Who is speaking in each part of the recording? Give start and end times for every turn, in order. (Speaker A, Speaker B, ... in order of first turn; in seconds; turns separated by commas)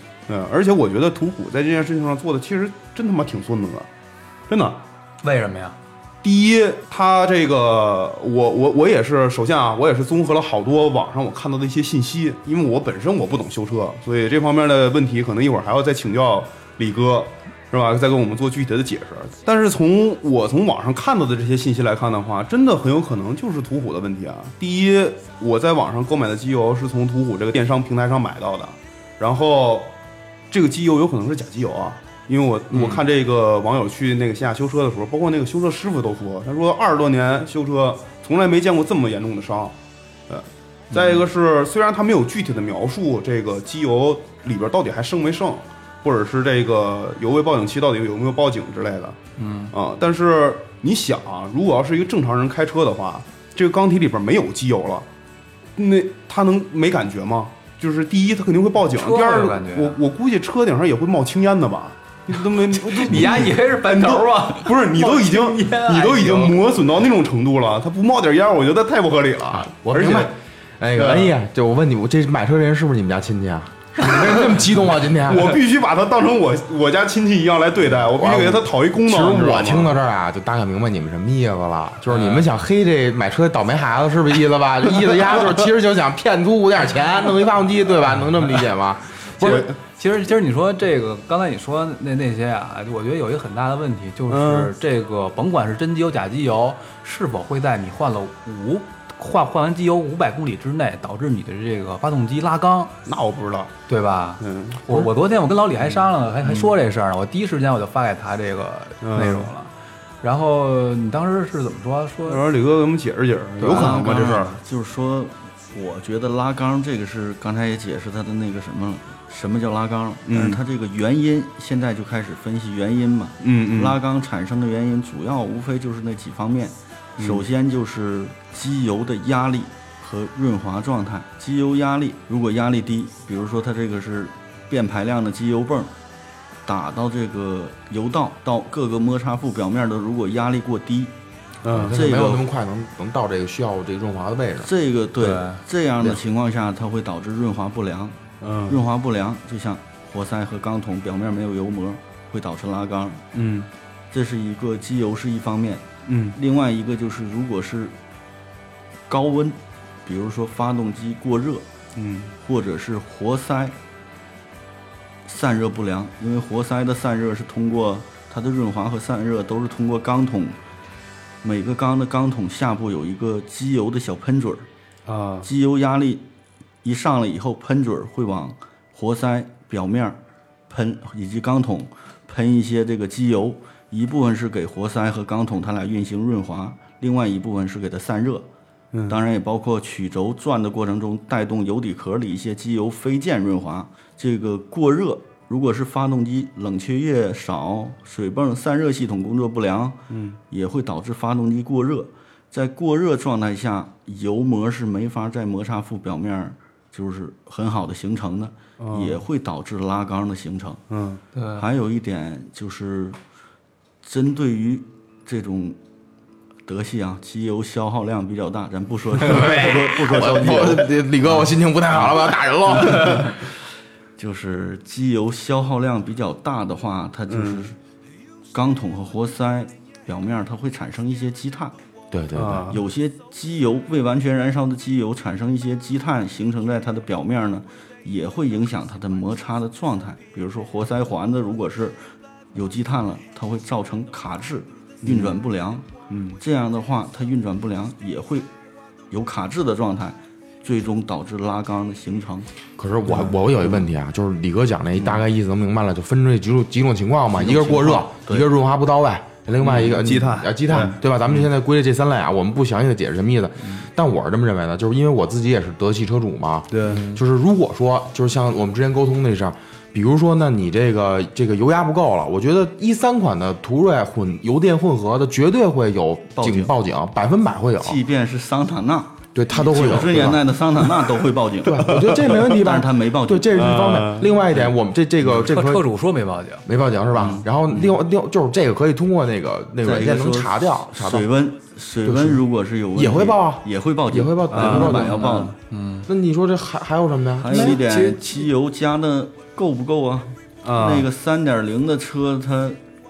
Speaker A: 0.3-3.9, Speaker A: 4.5-4.8, Speaker B: 5.2-5.8, Speaker A: 6.2-29.9, Speaker A: 30.5-39.8, Speaker B: 32.7-33.0, Speaker A: 40.3-49.2, Speaker B: 40.9-41.2, Speaker B: 49.4-49.7, Speaker A: 49.7-55.1, Speaker A: 55.8-70.3, Speaker B: 59.0-60.0, Speaker B: 62.5-66.6, Speaker C: 69.5-75.6, Speaker A: 71.0-71.3, Speaker A: 75.2-79.9, Speaker C: 78.0-89.7, Speaker B: 82.1-82.5, Speaker B: 89.4-102.9, Speaker A: 94.3-94.7, Speaker A: 103.0-103.7, Speaker B: 103.9-112.4, Speaker A: 104.4-105.1, Speaker A: 105.9-106.7, Speaker A: 109.0-109.5, Speaker A: 112.3-114.6, Speaker B: 113.6-114.4, Speaker D: 113.6-135.9, Speaker A: 120.3-120.6, Speaker A: 123.4-124.0, Speaker A: 127.2-127.4, Speaker D: 136.7-141.1, Speaker A: 141.6-141.9, Speaker C: 141.7-144.7, Speaker D: 141.8-142.5, Speaker D: 144.6-153.3, Speaker B: 145.2-145.6, Speaker A: 148.4-148.8, Speaker A: 153.3-153.7, Speaker D: 154.1-158.0, Speaker A: 156.1-156.4, Speaker D: 159.1-161.7, Speaker A: 162.0-162.3, Speaker D: 162.4-163.8, Speaker D: 165.2-170.6, Speaker D: 171.4-174.7, Speaker A: 175.1-175.5, Speaker D: 175.4-176.2, Speaker D: 176.8-188.5, Speaker A: 188.9-189.2, Speaker D: 189.1-200.0, Speaker A: 200.1-200.4, Speaker D: 200.5-210.8, Speaker A: 208.8-209.2, Speaker A: 210.9-211.2, Speaker B: 211.3-211.6, Speaker D: 211.6-213.2, Speaker D: 214.0-215.8, Speaker D: 216.7-223.5, Speaker C: 219.2-223.3, Speaker D: 224.2-227.8, Speaker A: 227.3-227.7, Speaker D: 228.5-231.8, Speaker C: 232.1-232.7, Speaker A: 232.3-232.8, Speaker D: 232.7-242.0, Speaker D: 242.5-248.5, Speaker A: 245.0-245.4, Speaker A: 246.1-246.4, Speaker D: 249.1-252.5, Speaker C: 252.8-278.0, Speaker A: 253.1-253.3, Speaker D: 257.3-258.5, Speaker A: 259.6-261.0, Speaker A: 266.7-267.1, Speaker D: 276.4-276.7, Speaker D: 277.8-284.8, Speaker C: 279.4-280.6, Speaker C: 281.6-285.9, Speaker A: 283.5-284.3, Speaker B: 285.2-286.6, Speaker C: 286.6-291.3, Speaker D: 287.1-288.0, Speaker D: 289.8-295.5, Speaker C: 292.0-292.4, Speaker C: 292.9-295.5, Speaker A: 294.5-295.4, Speaker B: 294.8-296.1, Speaker C: 296.1-297.8, Speaker D: 297.4-302.8, Speaker B: 297.5-298.5, Speaker A: 300.6-301.1